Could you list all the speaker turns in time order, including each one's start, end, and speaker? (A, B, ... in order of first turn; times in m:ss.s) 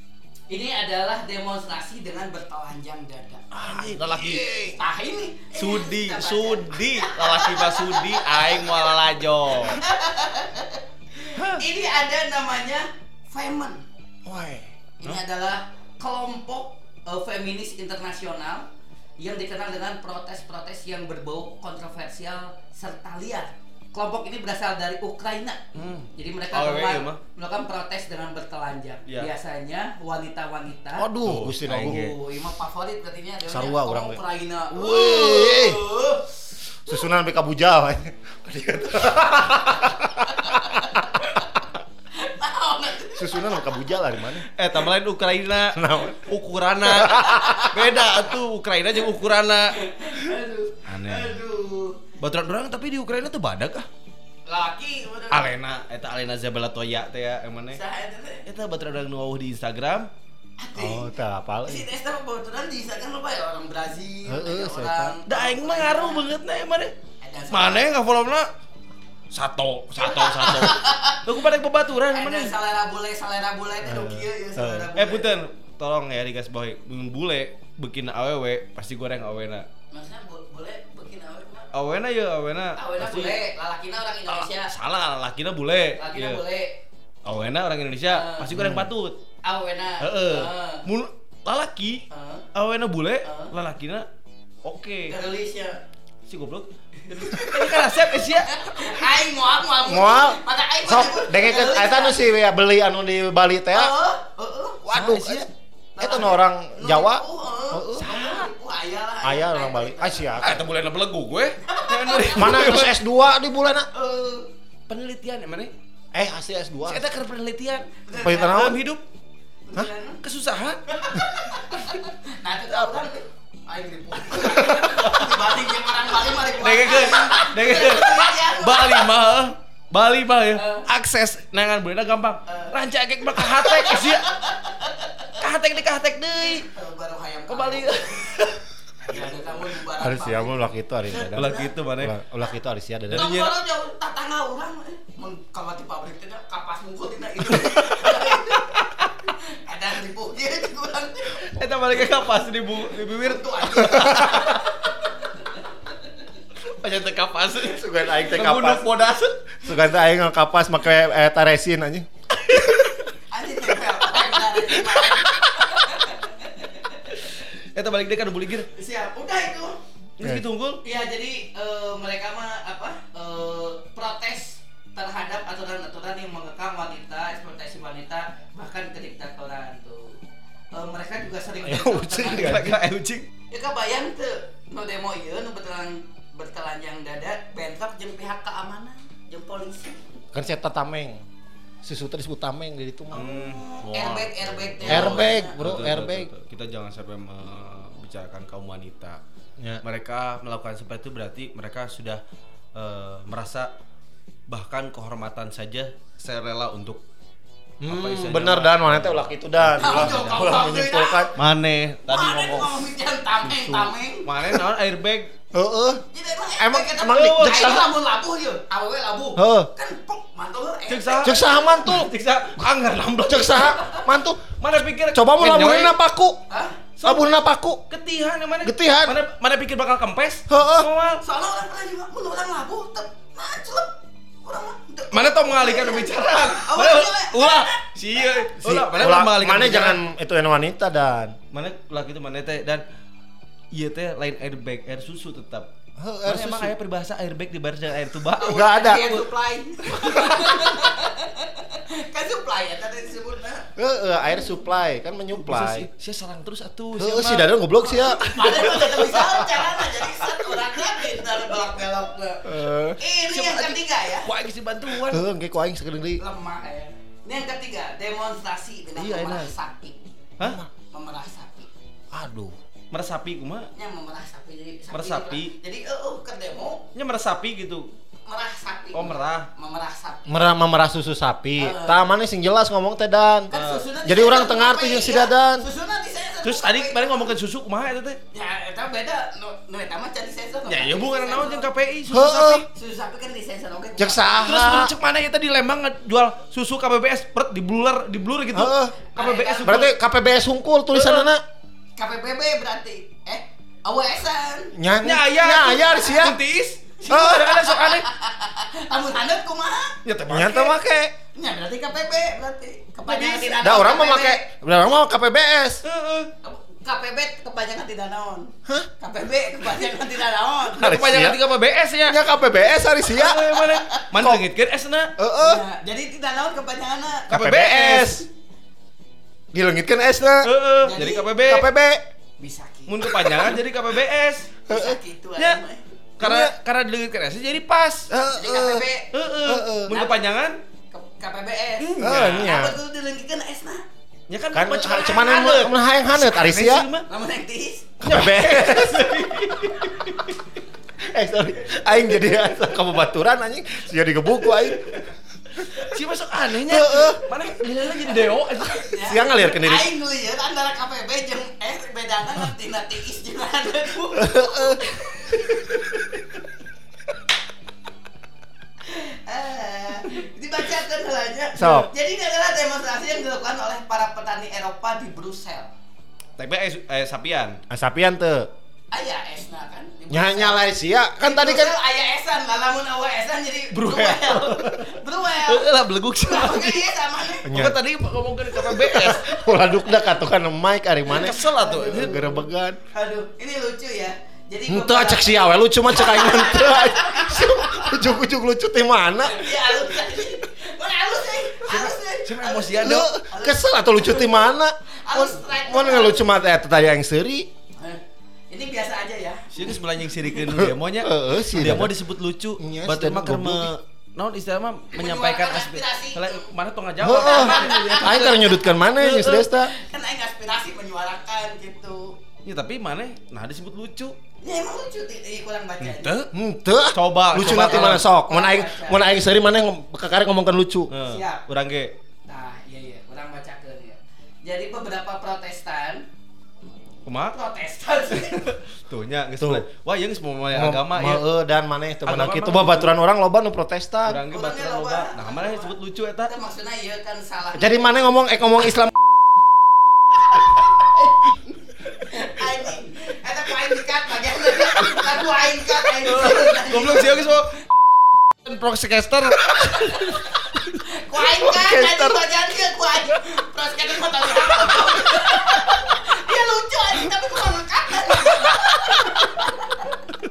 0:00.5-0:03.9 A
0:03.5-0:04.7 B
0:04.1-0:04.7 C
0:04.8-0:08.6 A
0:05.5-0:09.8 B
0:09.7-0:13.8 A
0:11.4-0:11.6 B
0:14.2-0:15.0 C
0:15.0-0:18.7 A
0:19.2-0:31.1 A
0:25.7-0:27.2 B
0:31.0-0:32.0 C
0:31.2-0:32.2 B
0:31.8-0:36.3 A
0:33.5-0:35.8 C
0:36.9-0:41.2 C
0:40.2-0:41.4 A
0:42.1-0:43.9 A
0:43.1-0:44.5 C
0:44.5-0:49.8 B
0:45.7-0:46.2 C
0:46.8-0:47.7 C
0:47.2-0:48.1 A
0:49.7-0:52.0 A
0:50.9-0:51.4 B
0:52.2-0:53.9 B
0:54.5-0:55.5 A
0:55.3-0:57.8 B
0:57.7-0:58.4 A
0:58.4-1:00.1 B
1:00.6-1:01.1 A
1:00.8-1:01.9 C
1:01.6-1:06.2 A
1:04.3-1:05.2 C
1:05.2-1:06.9 B
1:07.2-1:07.9 A
1:07.5-1:08.5 B
1:09.3-1:12.5 B
1:10.0-1:11.2 A
1:12.1-1:15.3 A
1:13.8-1:14.9 C
1:15.0-1:19.6 B
1:19.9-1:21.7 A
1:21.7-1:23.4 B
1:22.8-1:24.7 A
1:24.3-1:26.4 B
1:25.9-1:26.8 A
1:27.2-1:29.2 B
1:28.1-1:28.5 A
1:28.5-1:28.9 C
1:29.4-1:30.8 A
1:30.0-1:34.1 B
1:32.1-1:32.4 A
1:33.2-1:33.5 A
1:34.6-1:35.1 B
1:35.1-1:35.8 A
1:36.3-1:38.5 B
1:37.1-1:42.3 A
1:39.8-1:43.9 C
1:43.7-1:44.8 A
1:44.8-1:45.5 C
1:44.9-1:45.5 B
1:46.0-1:50.4 A
1:46.0-1:48.1 C
1:48.0-1:48.5 B
1:49.2-1:50.6 C
1:50.4-1:53.0 B
1:51.7-1:52.6 A
1:52.4-1:53.9 C
1:53.9-1:54.5 A
1:54.9-1:55.7 B
1:56.1-1:57.0 C
1:56.9-1:59.0 B
1:58.1-1:58.8 A
1:58.2-1:58.8 C
1:59.7-2:00.2 A
2:00.2-2:00.8 B
2:00.9-2:09.1 A
2:04.6-2:05.3 B
2:06.6-2:14.3 B
2:10.5-2:10.8 A
2:12.5-2:12.7 A
2:13.4-2:15.3 A
2:15.4-2:16.6 B
2:16.4-2:18.5 A
2:17.5-2:18.6 B
2:19.0-2:21.7 A
2:20.0-2:23.3 C
2:21.3-2:22.1 B
2:23.1-2:23.5 B
2:23.1-2:28.8 A
2:27.6-2:29.2 B
2:29.4-2:31.6 A
2:31.4-2:34.6 B
2:33.0-2:35.1 A
2:36.6-2:39.4 B
2:37.6-2:38.9 C
2:39.6-2:42.6 C
2:43.3-2:47.2 A
2:47.2-2:48.7 B
2:48.7-2:49.8 A
2:50.2-2:50.8 B
2:50.8-3:00.2 A
3:00.7-3:02.6 A
3:01.6-3:02.8 C
3:02.2-3:03.2 B
3:03.5-3:10.0 A
3:10.3-3:11.2 C
3:11.8-3:13.2 C
3:13.1-3:15.6 A
3:13.1-3:19.2 B
3:14.8-3:16.3 C
3:19.8-3:22.2 B
3:22.7-3:23.7 B
3:24.5-3:27.0 B
3:27.8-3:31.3 C
3:27.8-3:30.5 B
3:29.7-3:31.3 A
3:31.4-3:32.9 B
3:32.1-3:34.3 A
3:33.7-3:35.3 B
3:35.5-3:36.0 C
3:36.1-3:41.8 A
3:36.6-3:37.9 C
3:37.1-3:37.7 B
3:39.4-3:39.7 C
3:40.9-3:43.7 B
3:41.2-3:42.1 C
3:43.2-3:44.6 C
3:44.6-3:45.9 B
3:45.1-3:46.4 C
3:46.5-3:46.8 A
3:47.0-3:47.8 C
3:47.9-3:51.2 B
3:48.6-3:49.2 C
3:50.5-3:50.9 C
3:51.2-3:53.9 A
3:54.4-3:57.9 A
3:55.1-4:00.0 B
3:58.6-4:01.4 C
4:01.5-4:02.8 B
4:03.7-4:05.7 B
4:06.0-4:06.7 C
4:06.2-4:09.2 B
4:08.4-4:13.7 A
4:08.5-4:09.1 C
4:09.9-4:10.3 B
4:13.8-4:15.9 C
4:15.4-4:17.5 B
4:17.0-4:18.7 C
4:17.8-4:24.3 A
4:18.3-4:19.0 B
4:22.4-4:23.0 C
4:23.3-4:25.2 B
4:25.0-4:26.2 C
4:26.2-4:30.0 A
4:29.0-4:29.5 B
4:30.4-4:30.7 C
4:30.9-4:31.7 A
4:32.1-4:32.5 C
4:32.9-4:33.7 B
4:33.7-4:36.8 A
4:34.9-4:35.5 B
4:36.9-4:37.9 B
4:38.3-4:40.2 A
4:38.9-4:39.5 B
4:40.3-4:43.5 C
4:41.6-4:42.0 A
4:43.5-4:47.3 A
4:43.5-4:43.9 B
4:44.0-4:45.6 C
4:46.4-4:48.2 B
4:48.3-4:51.7 A
4:50.7-4:52.6 B
4:52.1-4:52.6 C
4:52.7-4:54.5 A
4:54.0-4:54.9 C
4:54.4-4:59.9 B
4:58.5-4:58.9 C
4:59.1-4:59.8 A
4:59.6-5:01.4 C
5:00.9-5:01.3 B
5:02.0-5:04.7 A
5:04.7-5:06.4 C
5:05.0-5:08.0 B
5:07.1-5:10.0 A
5:07.1-5:07.4 C
5:10.0-5:10.7 B
5:10.3-5:11.1 C
5:11.3-5:14.5 A
5:13.1-5:13.6 B
5:13.6-5:15.8 C
5:15.8-5:16.3 B
5:16.4-5:21.0 A
5:20.8-5:21.4 C
5:20.8-5:22.2 B
5:22.0-5:23.4 C
5:23.1-5:25.1 B
5:23.2-5:24.1 A
5:24.2-5:24.4 C
5:25.2-5:25.6 C
5:25.4-5:27.3 A
5:27.3-5:28.2 B
5:27.3-5:28.2 C
5:29.5-5:30.5 C
5:30.4-5:31.7 B
5:30.8-5:31.3 A
5:31.4-5:32.0 C
5:32.4-5:33.4 A
5:32.9-5:34.6 B
5:34.7-5:35.0 C
5:34.7-5:35.8 A
5:35.4-5:35.6 B
5:36.2-5:38.1 B
5:36.2-5:36.5 C
5:38.1-5:38.8 C
5:38.3-5:39.1 A
5:39.1-5:40.6 B
5:39.4-5:39.9 C
5:39.9-5:40.2 A
5:40.9-5:43.8 A
5:41.8-5:42.6 B
5:42.0-5:42.8 C
5:44.3-5:47.0 B
5:44.5-5:46.9 C
5:47.1-5:47.9 A
5:48.0-5:49.1 C
5:48.0-5:50.3 B
5:51.0-5:55.0 C
5:55.7-5:58.8 B
5:56.7-5:57.2 C
5:58.6-6:05.6 A
5:59.0-5:59.9 C
6:04.2-6:04.8 C
6:08.8-6:15.7 A
6:11.6-6:11.9 C
6:16.4-6:17.6 B
6:17.7-6:18.5 C
6:18.9-6:20.7 A
6:20.1-6:21.8 C
6:21.2-6:25.6 A
6:23.7-6:26.9 B
6:26.2-6:27.5 A
6:27.4-6:27.8 C
6:27.5-6:29.4 B
6:28.7-6:32.8 C
6:31.1-6:32.2 B
6:31.2-6:38.1 A
6:34.7-6:39.9 C
6:39.2-6:44.4 A
6:41.6-6:43.1 B
6:42.8-6:47.5 C
6:45.0-6:46.3 A
6:47.8-6:49.6 A
6:49.5-6:59.5 B
6:50.5-6:51.9 C
6:52.6-6:53.7 C
6:54.9-6:56.5 A
6:57.0-6:59.7 C
6:57.1-6:58.2 A
6:59.6-7:02.2 A
7:02.4-7:04.2 B
7:04.4-7:06.2 A
7:05.8-7:06.3 B
7:06.3-7:10.9 C
7:06.9-7:08.1 B
7:07.5-7:09.1 A
7:10.9-7:11.9 B
7:11.0-7:11.4 A
7:12.3-7:16.0 A
7:17.0-7:17.4 B
7:17.3-7:18.4 A
7:18.2-7:21.2 B
7:19.4-7:19.6 C
7:20.5-7:24.2 C
7:22.0-7:23.0 B
7:24.0-7:26.3 B
7:24.3-7:25.7 A
7:26.3-7:27.9 A
7:27.5-7:29.0 C
7:30.3-7:30.7 A
7:32.0-7:37.3 A
7:36.0-7:37.6 B
7:38.4-7:40.2 B
7:40.8-7:50.1 A
7:41.4-7:42.2 C
7:44.8-7:45.3 C